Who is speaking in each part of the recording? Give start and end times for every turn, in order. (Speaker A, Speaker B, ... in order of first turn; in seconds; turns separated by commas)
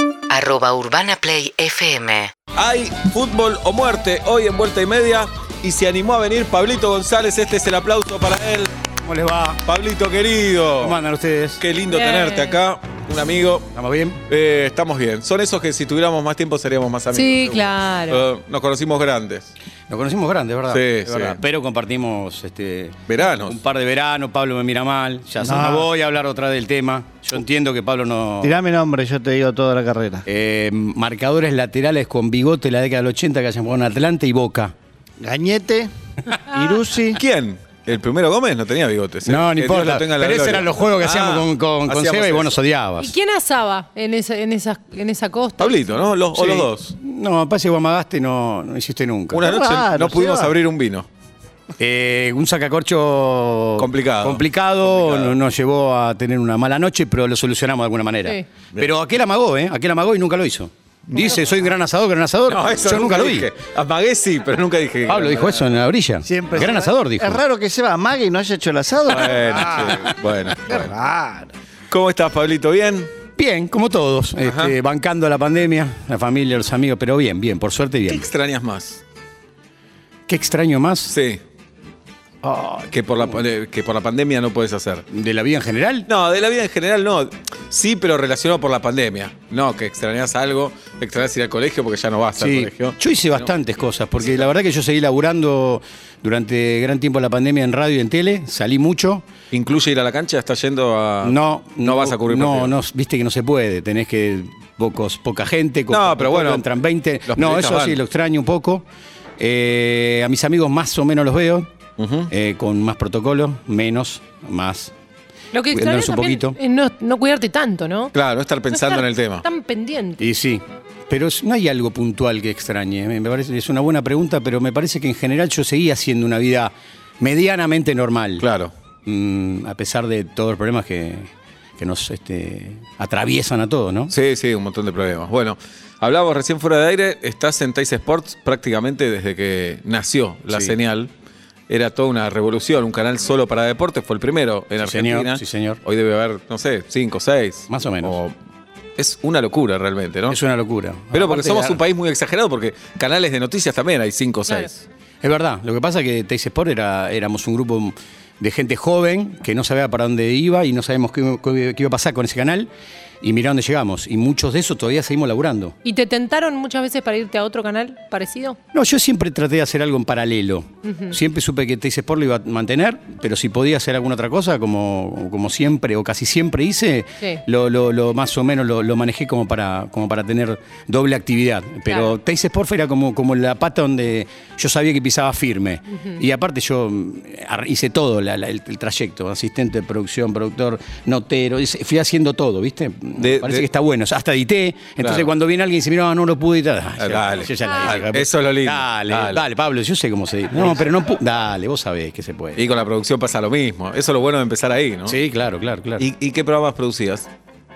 Speaker A: 0.3-2.3, Speaker B: 2.5-8.7, Speaker C: 9.0-9.6, Speaker B: 9.6-11.0, Speaker C: 10.8-11.6, Speaker B: 11.6-13.7, Speaker D: 11.9-12.6, Speaker C: 13.7-14.2, Speaker B: 14.3-19.5, Speaker D: 17.1-18.2, Speaker C: 19.9-28.6, Speaker B: 20.7-21.4, Speaker B: 23.1-23.6, Speaker E: 25.4-25.9, Speaker E: 28.4-30.2, Speaker C: 30.2-34.7, Speaker E: 35.2-37.2, Speaker B: 37.1-42.5, Speaker C: 39.2-43.1, Speaker D: 43.0-45.8, Speaker B: 45.6-47.0, Speaker C: 46.3-49.5, Speaker B: 49.3-51.1, Speaker E: 49.4-50.5, Speaker C: 51.8-63.5, Speaker B: 53.8-55.4, Speaker B: 61.1-61.4, Speaker B: 62.5-65.7, Speaker C: 65.1-67.4, Speaker E: 66.2-70.1, Speaker B: 69.1-70.9, Speaker C: 69.3-70.2, Speaker E: 70.7-71.5, Speaker B: 71.9-73.1, Speaker C: 73.4-78.3, Speaker B: 74.4-74.7, Speaker B: 78.1-79.0, Speaker C: 80.3-81.1, Speaker B: 81.1-81.4, Speaker C: 82.4-83.4, Speaker B: 82.9-85.0, Speaker C: 85.1-86.1, Speaker B: 86.1-93.5, Speaker C: 92.4-99.2, Speaker B: 99.5-102.7, Speaker C: 101.2-108.8, Speaker B: 105.9-106.6, Speaker B: 107.2-108.0, Speaker C: 109.4-111.7, Speaker B: 112.0-112.3, Speaker C: 112.3-114.9, Speaker D: 115.5-118.1, Speaker C: 115.7-116.6, Speaker B: 118.1-119.4, Speaker D: 118.7-120.2, Speaker C: 120.2-128.5, Speaker B: 128.4-128.7, Speaker C: 129.1-134.1, Speaker B: 134.1-141.1, Speaker C: 140.5-140.8, Speaker B: 141.7-148.3, Speaker C: 144.8-145.8, Speaker C: 147.7-148.2, Speaker B: 149.0-150.4, Speaker C: 150.3-151.8, Speaker B: 151.1-154.8, Speaker C: 155.2-162.7, Speaker C: 163.2-165.8, Speaker D: 165.8-168.6, Speaker C: 168.7-202.7, Speaker D: 170.8-171.2, Speaker B: 193.2-193.7, Speaker B: 195.0-195.3, Speaker B: 197.0-199.4, Speaker D: 197.6-197.9, Speaker B: 202.6-205.2, Speaker C: 205.1-206.1, Speaker B: 206.0-207.3